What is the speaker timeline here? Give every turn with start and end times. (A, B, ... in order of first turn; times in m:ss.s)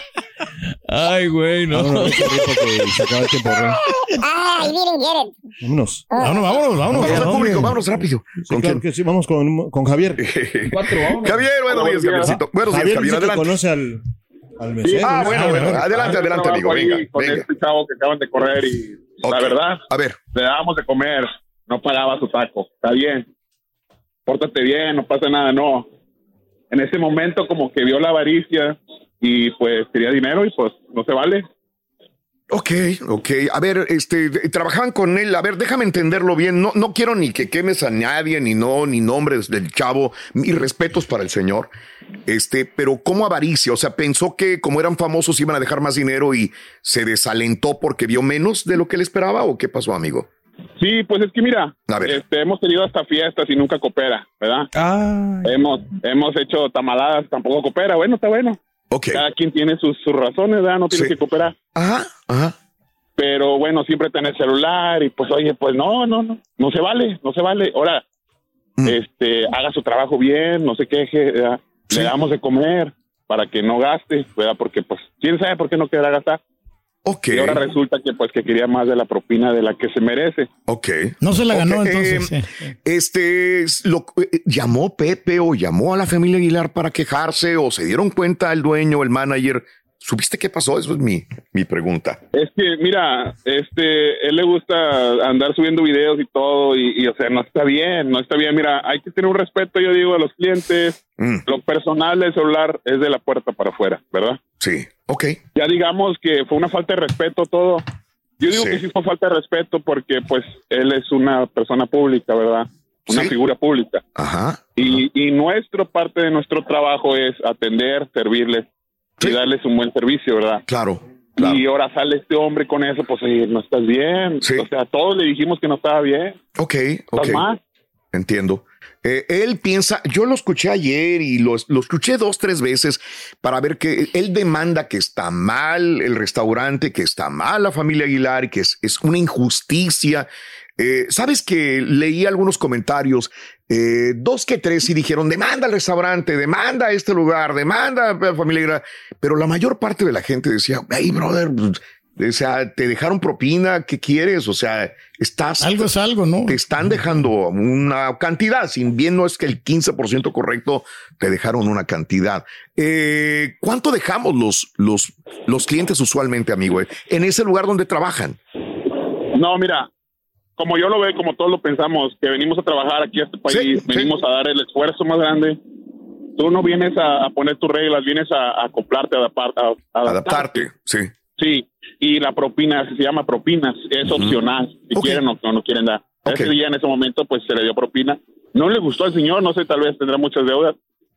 0:00.9-0:02.4 A
0:01.7-0:03.8 B
0:03.8-0:05.4 C
0:05.6-0:06.1 B
0:06.1-0:06.6 C
0:06.2-0:07.7 D
0:06.9-0:08.8 E
0:06.9-0:07.7 A
0:08.4-0:10.2 B
0:10.2-0:13.5 E
0:10.7-0:11.4 A
0:11.7-0:12.4 F
0:12.7-0:14.0 B
0:14.6-0:15.7 B
0:14.8-0:23.3 F
0:15.0-0:17.4 E
0:15.3-0:15.8 D
0:19.2-0:20.2 E
0:24.3-0:25.9 F
0:26.7-0:31.5 F
0:32.5-0:41.7 E
0:42.3-0:50.3 E
0:50.8-0:54.7 F
0:51.9-0:52.2 E
0:54.7-0:55.5 A
0:55.4-0:58.6 F
0:58.9-0:59.2 E
0:59.1-1:01.6 F
1:01.8-1:02.6 E
1:03.2-1:08.0 F
1:08.8-1:16.4 F
1:17.0-1:17.6 E
1:17.3-1:20.5 F
1:20.7-1:22.3 E
1:21.2-1:22.5 D
1:22.9-1:32.2 E
1:32.3-1:44.4 F
1:41.2-1:41.4 E
1:44.6-1:45.4 E
1:45.6-1:47.8 F
1:48.4-1:54.0 F
1:48.5-1:48.8 E
1:53.1-1:53.3 E
1:54.2-1:55.0 E
1:54.8-1:58.7 F
1:59.2-2:00.6 F
2:00.7-2:01.6 E
2:01.4-2:06.4 F
2:06.6-2:07.4 E
2:07.2-2:07.6 F
2:08.1-2:35.9 E
2:35.6-2:36.6 D
2:36.5-2:48.4 E
2:49.3-2:49.9 F
2:50.6-2:55.6 F
2:53.5-2:54.1 E
2:56.4-3:00.7 F
3:00.0-3:01.1 E
3:01.4-3:10.8 F
3:04.1-3:04.4 E
3:04.9-3:05.2 E
3:06.2-3:06.5 E